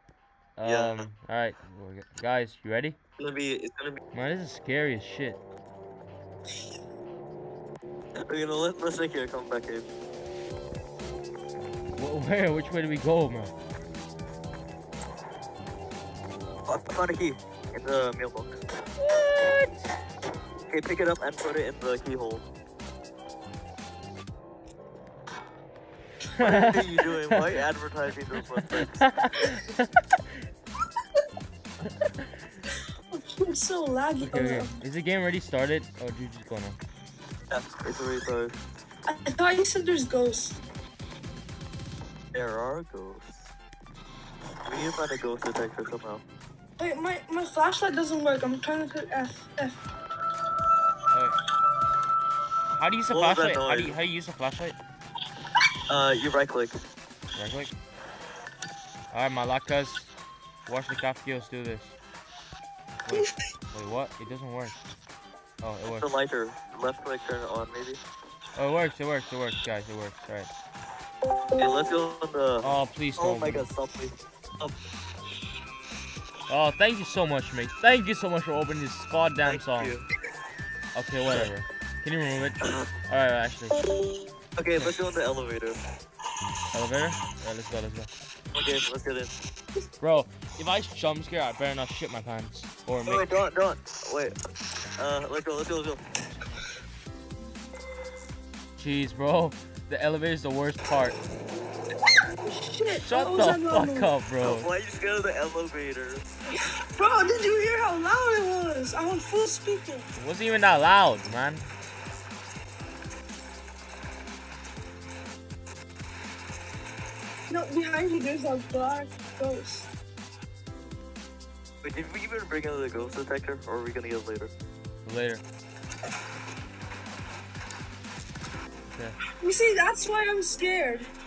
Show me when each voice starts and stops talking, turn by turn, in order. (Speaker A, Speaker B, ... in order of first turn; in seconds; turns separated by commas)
Speaker A: 0.6-3.0, Speaker B: 0.6-1.1, Speaker B: 3.2-4.0, Speaker A: 4.1-5.4, Speaker B: 8.2-9.9, Speaker A: 11.9-13.5, Speaker B: 16.6-18.6, Speaker A: 19.0-19.8, Speaker B: 20.7-22.4, Speaker A: 26.4-27.5, Speaker B: 26.4-29.0, Speaker A: 28.8-30.2, Speaker C: 33.1-34.7, Speaker A: 34.2-36.8, Speaker B: 37.5-38.5, Speaker C: 39.1-40.6, Speaker B: 42.3-43.4, Speaker B: 44.6-46.2, Speaker C: 46.8-49.8, Speaker A: 52.8-54.8, Speaker B: 53.1-54.0, Speaker B: 55.9-56.8, Speaker A: 57.4-57.7, Speaker A: 59.1-60.1, Speaker A: 60.6-62.0, Speaker A: 63.0-64.8, Speaker C: 63.1-63.4, Speaker A: 65.6-66.1, Speaker B: 66.0-68.0, Speaker A: 68.6-70.5, Speaker B: 71.6-72.7, Speaker A: 72.6-73.7, Speaker B: 73.2-74.8, Speaker A: 76.5-79.9, Speaker B: 79.4-80.1, Speaker A: 81.0-83.8, Speaker B: 82.6-82.9, Speaker B: 84.6-85.8, Speaker A: 86.7-88.1, Speaker B: 88.5-89.3, Speaker A: 90.0-93.3, Speaker B: 93.0-94.4, Speaker B: 95.0-96.0, Speaker A: 98.8-101.2, Speaker C: 102.4-104.1, Speaker A: 102.9-104.7, Speaker B: 104.4-106.3, Speaker C: 106.5-110.1, Speaker A: 110.2-111.7, Speaker C: 117.5-119.9, Speaker B: 121.8-124.5, Speaker A: 125.0-125.4, Speaker A: 128.9-129.2, Speaker C: 129.4-131.1